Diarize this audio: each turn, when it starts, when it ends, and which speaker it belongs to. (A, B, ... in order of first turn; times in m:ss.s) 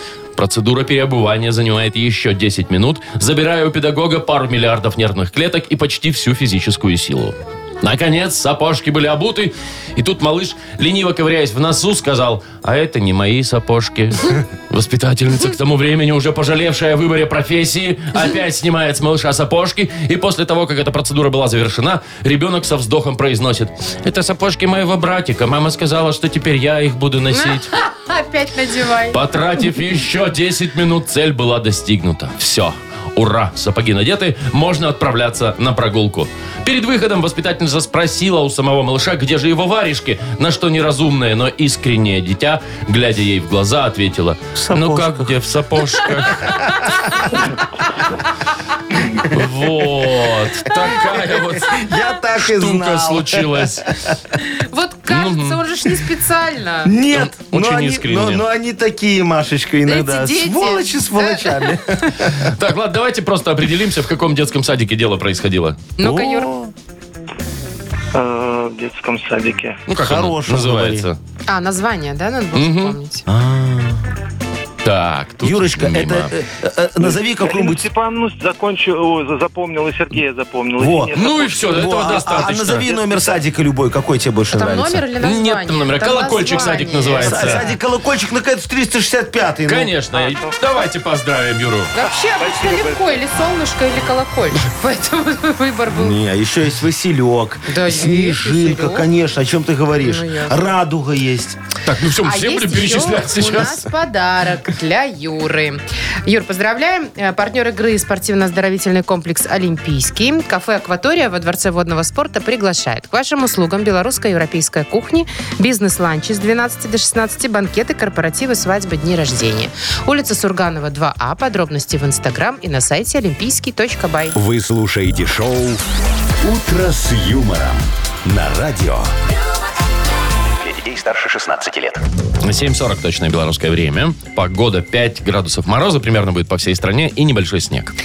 0:00.4-0:27.7 A
0:27.3-0:29.2 B
0:29.1-0:46.8 A
0:44.6-0:45.4 C
0:49.3-0:53.9 A
0:51.1-0:54.2 C
0:54.5-0:56.9 B
0:55.1-0:55.6 A
0:56.8-1:02.5 C
0:57.1-0:58.4 A
0:59.8-1:02.1 B
1:02.4-1:05.8 A
1:06.0-1:06.5 B
1:06.0-1:06.7 C
1:08.1-1:09.8 D
1:09.9-1:11.2 A
1:10.0-1:11.1 C
1:11.5-1:13.2 B
1:12.5-1:13.0 A
1:13.3-1:14.0 C
1:14.8-1:16.3 A
1:15.4-1:17.9 C
1:17.0-1:23.2 D
1:20.8-1:25.0 C
1:21.2-1:22.8 A
1:24.5-1:27.7 B
1:25.2-1:27.6 A
1:27.2-1:29.9 C
1:29.6-1:31.9 A
1:30.2-1:30.5 D
1:31.9-1:36.2 B
1:32.4-1:33.1 D
1:35.9-1:41.6 C
1:37.7-1:39.1 B
1:40.0-1:40.7 B
1:41.8-1:43.9 A
1:42.2-2:04.4 B
2:04.3-2:05.8 E
2:06.4-2:09.1 E
2:10.6-2:12.0 E
2:12.4-2:17.9 A